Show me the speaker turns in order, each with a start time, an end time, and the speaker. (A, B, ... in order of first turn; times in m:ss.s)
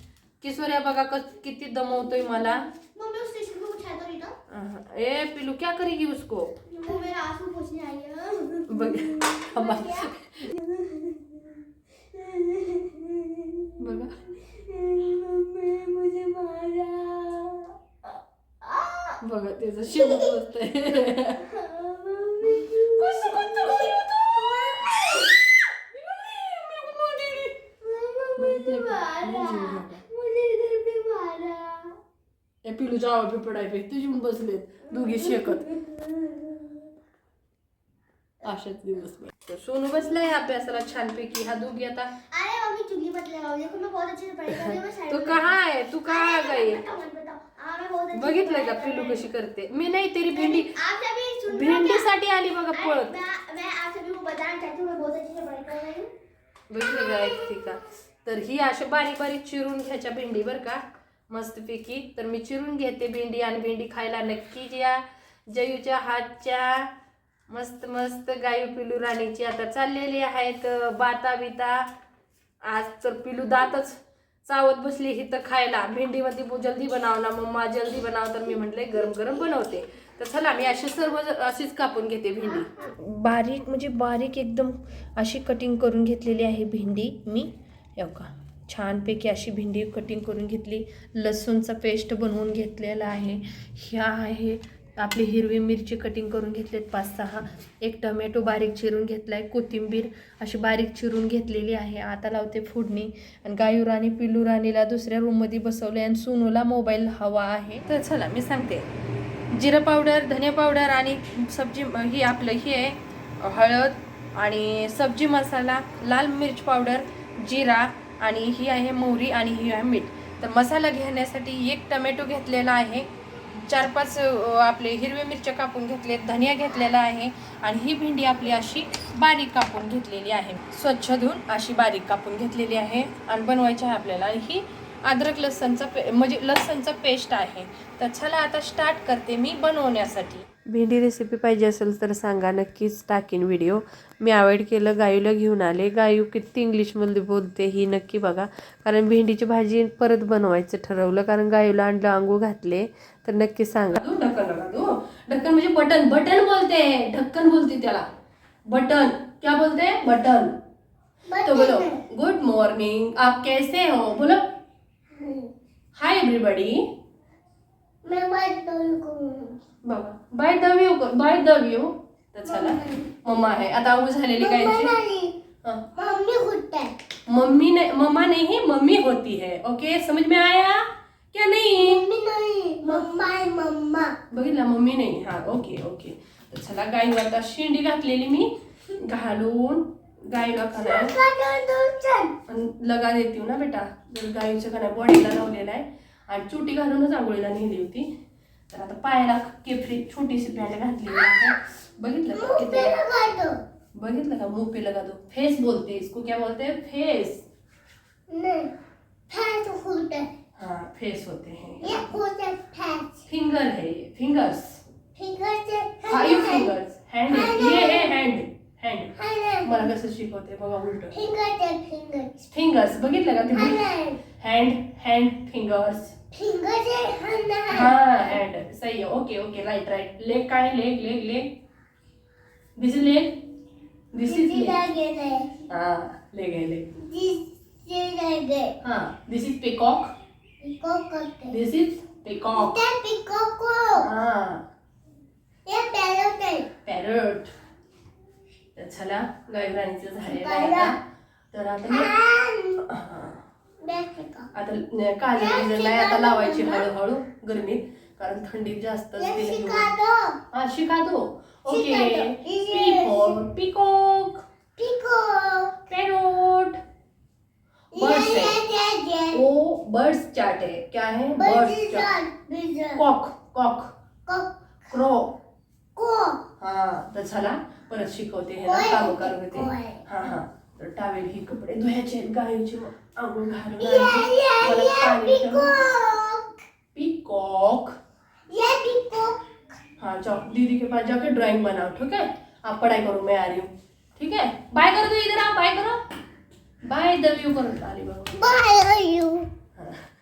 0:00.4-0:02.7 A
0:02.7-0:04.4 B
0:04.5-0:06.6 A
0:06.7-0:13.8 B
0:08.7-0:10.5 A
0:13.8-0:14.2 A
0:14.4-0:17.7 B
0:18.6-0:19.2 B
0:19.2-0:21.5 A
0:19.9-0:20.3 B
0:21.4-0:24.0 B
0:22.4-0:25.0 A
0:26.0-0:27.6 A
0:27.7-0:32.0 B
0:28.4-0:30.0 A
0:32.6-0:35.6 A
0:34.9-0:36.8 B
0:38.4-0:42.2 A
0:42.3-0:45.5 B
0:44.5-0:46.8 A
0:46.0-0:49.2 B
0:48.1-0:50.8 A
0:50.3-0:52.1 B
0:51.5-0:53.2 A
0:52.7-0:56.1 B
0:56.7-1:06.9 A
0:56.8-0:57.8 B
1:07.5-1:11.9 A
1:12.6-1:48.9 A
1:19.1-1:19.8 B
1:49.5-2:03.1 A
2:03.6-2:20.4 A
2:20.7-2:34.0 C
2:34.0-2:38.1 A
2:38.7-2:40.6 A
2:41.3-2:42.0 B
2:41.4-2:44.4 A
2:45.1-2:45.5 B
2:46.0-2:46.9 A
2:48.0-2:49.6 B
2:49.9-2:54.9 A
2:52.5-2:53.1 B
2:54.4-2:55.3 B
2:55.6-2:56.1 A
2:56.0-2:57.0 B
2:57.3-3:02.0 A
3:01.8-3:04.1 B
3:04.3-3:11.1 A
3:10.8-3:12.4 B
3:12.5-3:18.1 A
3:18.7-3:23.0 A
3:22.3-3:23.6 B
3:24.0-3:27.4 A
3:28.3-3:28.7 B
3:29.3-3:30.3 B
3:30.6-3:32.1 A
3:31.8-3:33.2 B
3:33.3-3:34.8 A
3:35.2-3:36.7 B
3:36.1-3:39.1 A
3:37.3-3:38.2 B
3:39.2-3:39.9 B
3:39.6-3:41.1 A
3:41.1-3:42.4 B
3:42.5-3:46.1 A
3:43.5-3:44.2 B
3:46.3-3:48.4 B
3:47.7-3:51.5 A
3:52.8-3:53.4 A
3:54.1-3:54.8 A
3:54.3-3:55.6 B
3:55.7-3:56.9 A
3:57.0-3:58.8 B
3:58.8-4:00.1 A
4:00.6-4:01.6 B
4:01.5-4:02.8 A
4:02.5-4:04.1 B
4:04.0-4:04.7 A
4:05.7-4:06.7 B
4:06.8-4:07.5 A
4:08.8-4:11.0 A
4:10.2-4:11.0 B
4:11.5-4:12.1 A
4:11.8-4:12.8 B
4:12.8-4:13.4 A
4:13.8-4:14.5 B
4:14.6-4:19.9 A
4:15.4-4:16.9 B
4:19.2-4:20.4 B
4:20.5-4:24.4 A
4:21.7-4:23.4 B
4:24.8-4:25.9 B
4:25.9-4:26.8 A
4:27.9-4:29.4 B
4:28.0-4:28.6 A
4:29.3-4:32.1 A
4:31.4-4:33.0 B
4:33.0-4:33.9 A
4:34.3-4:35.0 B
4:34.9-4:35.4 A
4:36.0-4:36.4 B
4:36.6-4:45.8 A
4:38.6-4:40.0 B
4:43.8-4:46.5 B
4:46.9-4:48.0 A
4:48.5-4:49.4 B
4:50.0-4:56.0 A
4:56.8-4:58.5 A
4:58.4-4:59.5 B
4:59.8-5:00.0 A